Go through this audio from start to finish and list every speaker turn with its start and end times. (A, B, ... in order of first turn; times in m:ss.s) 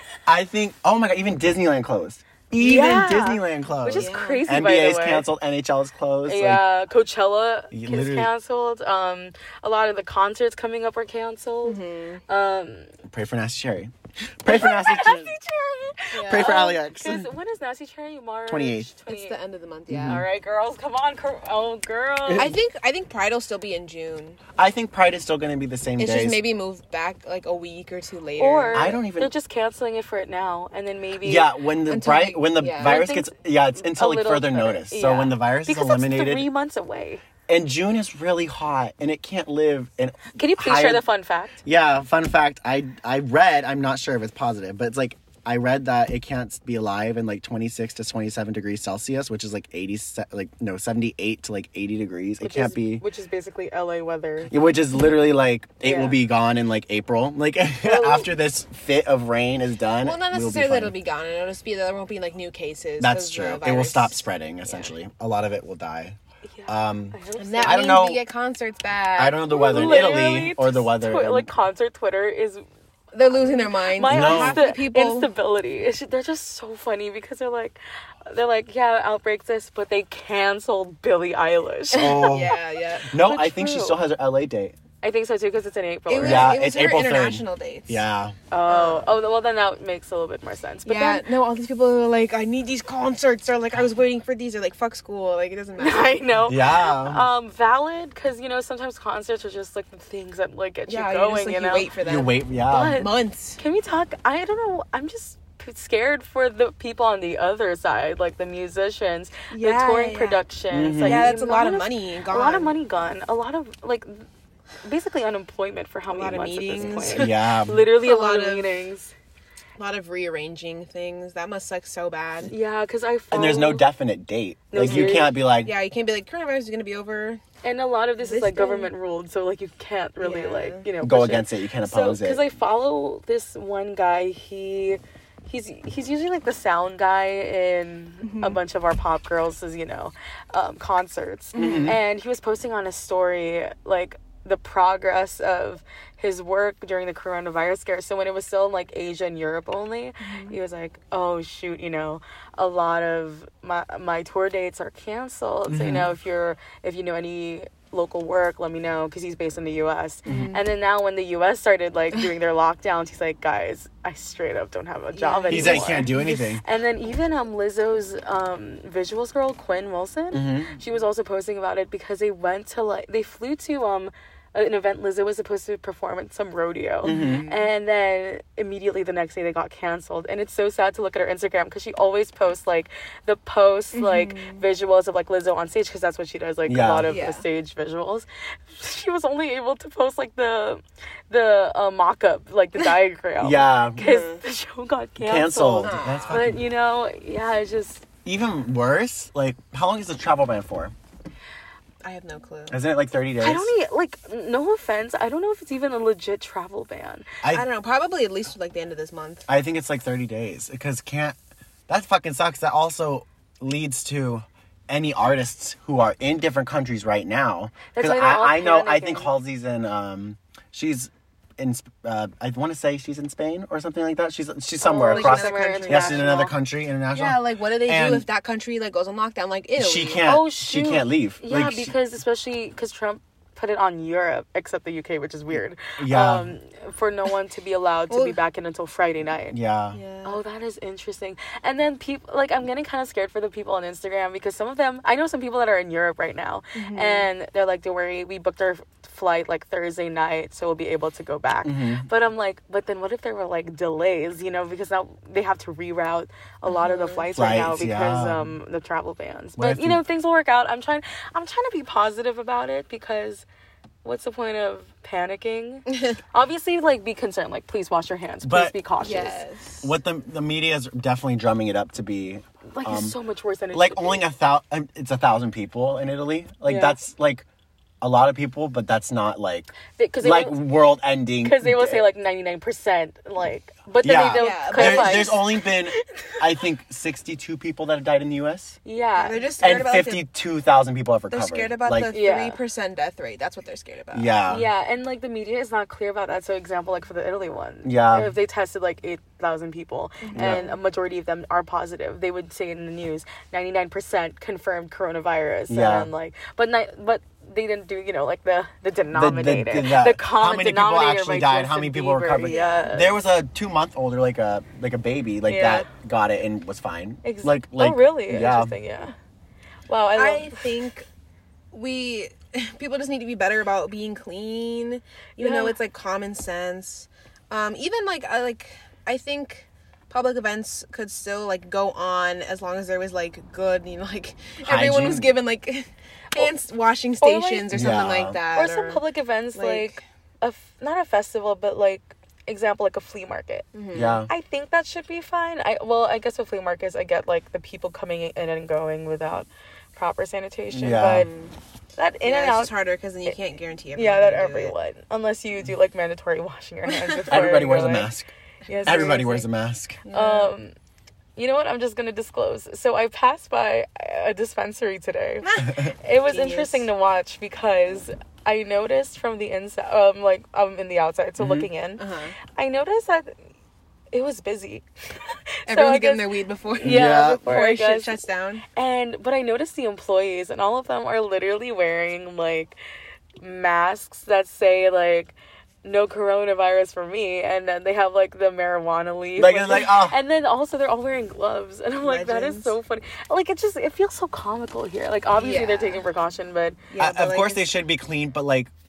0:00.3-0:06.6 A
0:02.6-0:05.3 B
0:03.9-0:04.5 C
0:06.3-0:12.9 B
0:07.7-0:08.3 A
0:11.6-0:12.2 C
0:13.1-0:15.4 A
0:14.5-0:19.4 B
0:16.1-0:16.7 C
0:16.3-0:17.3 A
0:18.5-0:18.9 A
0:19.1-0:20.2 C
0:19.9-0:20.2 A
0:20.0-0:22.5 B
0:22.3-0:22.5 A
0:22.4-0:24.4 C
0:24.6-0:26.4 A
0:26.0-0:29.0 C
0:28.4-0:31.5 B
0:28.7-0:29.3 A
0:31.2-0:36.5 A
0:31.9-0:33.0 C
0:32.8-0:37.2 B
0:37.5-0:41.0 A
0:40.4-0:41.6 B
0:41.6-0:53.0 A
0:52.4-0:54.5 B
0:54.5-1:00.9 A
0:55.8-0:56.2 B
0:57.8-0:58.3 B
1:00.0-1:04.9 C
1:03.0-1:08.2 A
1:06.5-1:08.0 B
1:07.4-1:10.0 C
1:09.2-1:11.5 A
1:09.5-1:12.6 B
1:13.1-1:15.3 C
1:13.3-1:22.4 B
1:14.1-1:14.6 A
1:21.9-1:22.6 A
1:22.0-1:23.1 C
1:23.1-1:24.8 A
1:23.2-1:24.0 B
1:25.0-1:26.6 B
1:26.1-1:28.0 C
1:26.2-1:28.4 A
1:28.5-1:31.2 B
1:28.7-1:29.1 C
1:30.9-1:36.3 C
1:35.8-1:41.9 B
1:36.5-1:37.3 A
1:40.9-1:43.6 C
1:42.0-1:43.0 A
1:42.7-1:54.3 B
1:49.5-1:50.4 C
1:50.7-1:51.3 A
1:51.0-1:52.7 C
1:54.8-1:59.1 B
1:56.1-1:57.4 C
1:57.1-1:57.8 A
1:57.9-1:58.8 C
1:59.8-2:02.5 C
2:02.5-2:03.9 B
2:03.3-2:05.7 A
2:04.7-2:05.4 B
2:04.8-2:07.4 C
2:07.6-3:18.0 B
2:08.2-2:08.9 C
2:10.2-2:10.9 C
2:11.0-2:12.5 A
2:18.2-2:18.6 C
2:21.5-2:22.0 C
2:21.6-2:22.0 A
2:30.2-2:30.6 C
2:35.7-2:36.1 A
2:40.3-2:40.6 C
2:45.1-2:46.5 C
2:45.5-2:46.6 A
2:50.3-2:50.8 A
2:57.0-2:57.5 A
2:57.0-2:57.6 C
3:03.9-3:04.6 C
3:06.7-3:07.1 A
3:07.1-3:07.4 C
3:13.4-3:14.1 A
3:14.0-3:14.4 C
3:15.2-3:16.6 A
3:15.8-3:16.4 C
3:18.2-3:20.9 A
3:22.0-3:22.8 C
3:22.7-3:23.7 A
3:23.4-3:27.3 B
3:27.5-3:29.5 C
3:29.5-3:31.4 A
3:31.9-3:48.3 A
3:37.9-3:39.3 B
3:44.8-3:46.5 B
3:44.9-3:46.4 C
3:47.1-3:50.2 C
3:49.8-3:51.9 A
3:50.2-3:59.6 B
3:56.0-3:56.5 A
3:58.1-3:58.4 C
3:59.5-4:00.0 A
3:59.9-4:00.4 C
4:00.2-4:23.4 B
4:06.8-4:07.3 C
4:11.6-4:12.1 A
4:16.7-4:17.3 C
4:17.4-4:18.5 A
4:19.6-4:20.0 A
4:24.0-4:29.4 B
4:28.4-4:28.8 A
4:29.0-4:30.0 C
4:29.8-4:33.2 A
4:32.7-4:34.3 B
4:33.7-4:37.5 A
4:36.6-4:37.0 B
4:38.0-4:42.1 A
4:40.0-4:40.7 B
4:41.4-4:45.4 B
4:44.0-4:48.8 A
4:44.3-4:45.5 C
4:48.8-4:49.5 B
4:49.2-4:50.2 C
4:49.6-4:52.1 A
4:51.3-4:54.3 C
4:52.1-4:52.6 B
4:54.1-4:54.7 A
4:54.5-5:13.2 B
4:57.8-4:58.3 A
5:00.2-5:00.8 C
5:00.4-5:00.6 A
5:05.7-5:06.1 A
5:09.1-5:18.8 A
5:12.4-5:12.9 C
5:15.5-5:15.9 B
5:17.2-5:19.1 B
5:19.9-5:20.7 B
5:20.2-5:21.1 C
5:21.7-5:39.0 C
5:25.4-5:25.8 B
5:34.6-5:35.3 A
5:37.2-5:37.8 B
5:37.7-5:38.4 A
5:38.5-5:43.7 B
5:39.6-5:40.0 C
5:43.7-5:44.2 C
5:43.9-5:44.3 A
5:44.3-5:51.3 B
5:50.7-5:51.3 A
5:50.9-5:51.6 C
5:52.0-5:52.8 B
5:52.2-5:54.7 C
5:54.0-5:58.1 B
5:57.3-5:58.3 A
5:58.7-5:59.5 B
5:58.8-6:00.0 A
6:00.0-6:00.5 C
6:00.1-6:00.7 B
6:01.4-6:12.0 B
6:05.4-6:06.9 C
6:11.4-6:11.7 A
6:12.0-6:12.4 C
6:12.5-6:13.4 B
6:14.1-6:18.2 B
6:15.7-6:18.6 C
6:16.8-6:17.5 A
6:18.7-6:22.8 B
6:23.4-6:36.9 B
6:29.4-6:30.2 A
6:32.0-6:32.8 C
6:35.3-6:36.1 C
6:36.9-6:37.7 C
6:37.0-6:38.7 A